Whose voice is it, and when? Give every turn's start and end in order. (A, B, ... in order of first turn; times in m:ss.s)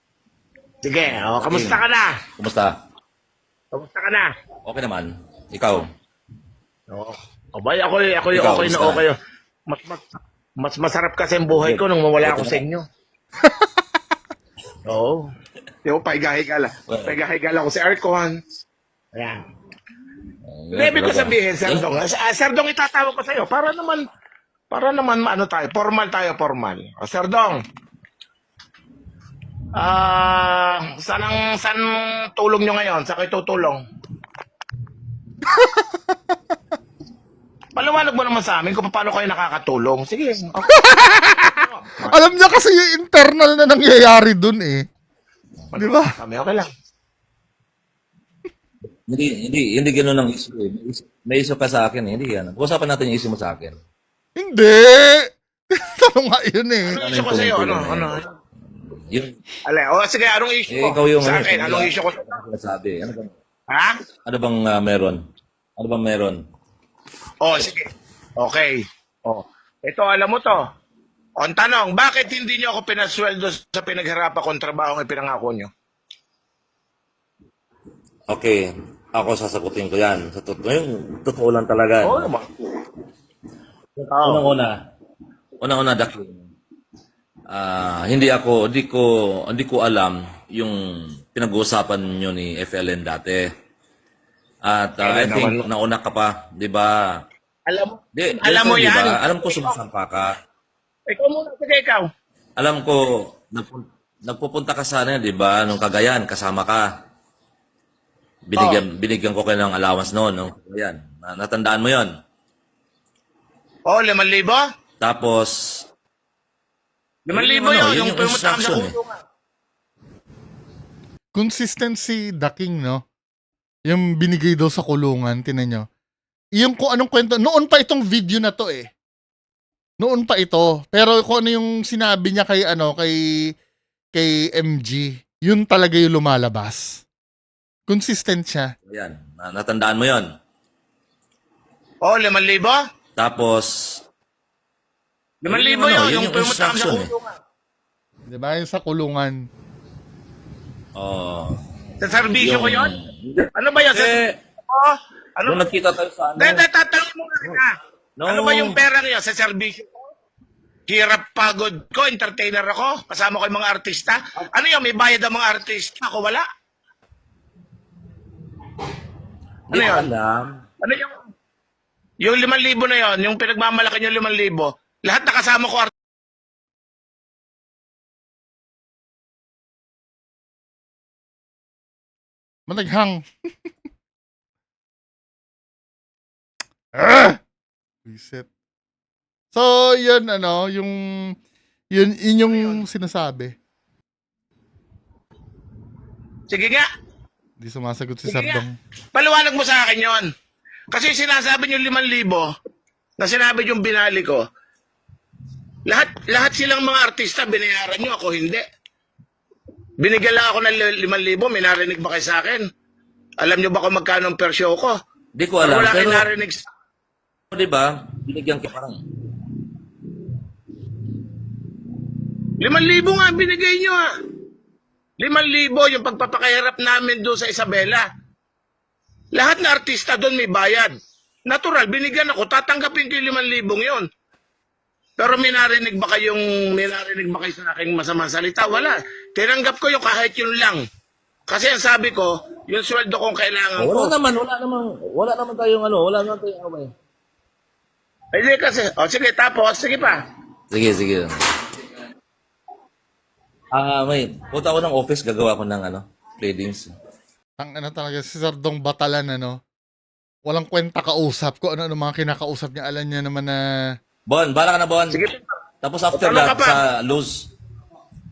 0:00.8-0:02.2 A
0:01.1-0:01.8 B
0:02.4-0:02.7 B
0:03.7-0:04.3 A
0:04.6-0:05.9 B
0:06.9-0:09.2 A
0:08.3-0:09.0 B
0:09.7-0:10.0 A
0:10.6-0:12.8 A
0:11.5-0:12.6 B
0:14.9-0:15.2 A
0:15.8-0:18.4 A
0:16.9-0:17.2 B
0:19.1-0:19.4 A
0:20.5-0:21.9 B
0:20.7-0:24.0 A
0:24.7-0:27.6 A
0:29.8-0:33.8 A
0:35.4-0:36.2 C
0:37.8-0:40.8 A
0:40.7-0:41.6 C
0:41.5-0:42.2 A
0:42.1-0:44.8 C
0:45.7-0:46.7 A
0:45.8-0:46.1 C
0:49.1-0:53.8 B
0:54.4-0:57.0 C
0:56.9-0:58.3 A
0:57.0-0:58.2 B
0:58.8-0:59.4 B
0:59.6-1:02.3 A
1:00.7-1:03.3 B
1:03.7-1:04.0 A
1:04.2-1:05.2 B
1:05.8-1:06.4 B
1:07.4-1:10.6 A
1:11.4-1:15.7 A
1:18.3-1:22.3 B
1:22.0-1:22.7 A
1:24.0-1:24.4 A
1:24.2-1:24.8 B
1:25.6-1:26.5 B
1:27.5-1:33.4 B
1:34.6-1:37.0 B
1:35.0-1:35.6 A
1:37.7-1:39.7 A
1:38.1-1:40.3 B
1:41.1-1:42.1 A
1:42.6-1:46.9 B
1:48.5-1:52.1 B
1:48.6-1:48.8 A
1:53.9-1:54.6 A
1:55.0-1:55.9 B
1:57.2-1:59.2 A
1:57.3-1:59.0 B
2:01.3-2:03.0 C
2:03.9-2:05.8 C
2:06.6-2:08.9 C
2:10.0-2:13.2 C
2:14.1-2:17.0 C
2:17.9-2:18.7 C
2:18.9-2:20.3 B
2:22.0-2:22.8 A
2:23.2-2:24.0 B
2:25.4-2:27.4 A
2:25.5-2:27.1 B
2:28.3-2:29.4 C
2:31.0-2:31.6 B
2:32.0-2:32.9 A
2:32.3-2:34.3 B
2:33.5-2:34.2 A
2:34.7-2:35.6 A
2:35.4-2:36.6 B
2:36.4-2:39.9 A
2:38.2-2:38.8 B
2:40.9-2:46.4 A
2:49.7-2:50.6 B
2:49.7-2:50.1 A
2:50.8-2:51.2 A
2:52.2-2:55.9 A
3:02.7-3:03.2 C
3:06.9-3:07.4 C
3:08.0-3:08.5 C
3:09.5-3:11.3 C
3:11.9-3:13.5 C
3:16.5-3:16.9 A
3:17.6-3:18.8 C
3:18.2-3:18.6 A
3:19.1-3:20.3 A
3:20.9-3:22.5 A
3:23.2-3:24.4 A
3:25.9-3:28.6 A
3:30.0-3:32.7 A
3:33.4-3:35.0 A
3:35.4-3:36.3 B
3:35.6-3:36.6 A
3:37.5-3:39.0 B
3:42.6-3:44.1 A
3:45.2-3:48.1 A
3:49.3-3:50.9 A
3:51.5-3:54.1 A
3:55.2-4:00.8 A
4:01.5-4:04.1 A
4:03.8-4:06.9 B
4:08.3-4:10.2 A
4:10.7-4:11.4 B
4:13.7-4:16.9 B
4:17.6-4:19.6 C
4:20.4-4:23.6 C
4:24.3-4:25.2 B
4:25.1-4:25.4 A
4:25.8-4:27.5 B
4:26.1-4:26.8 A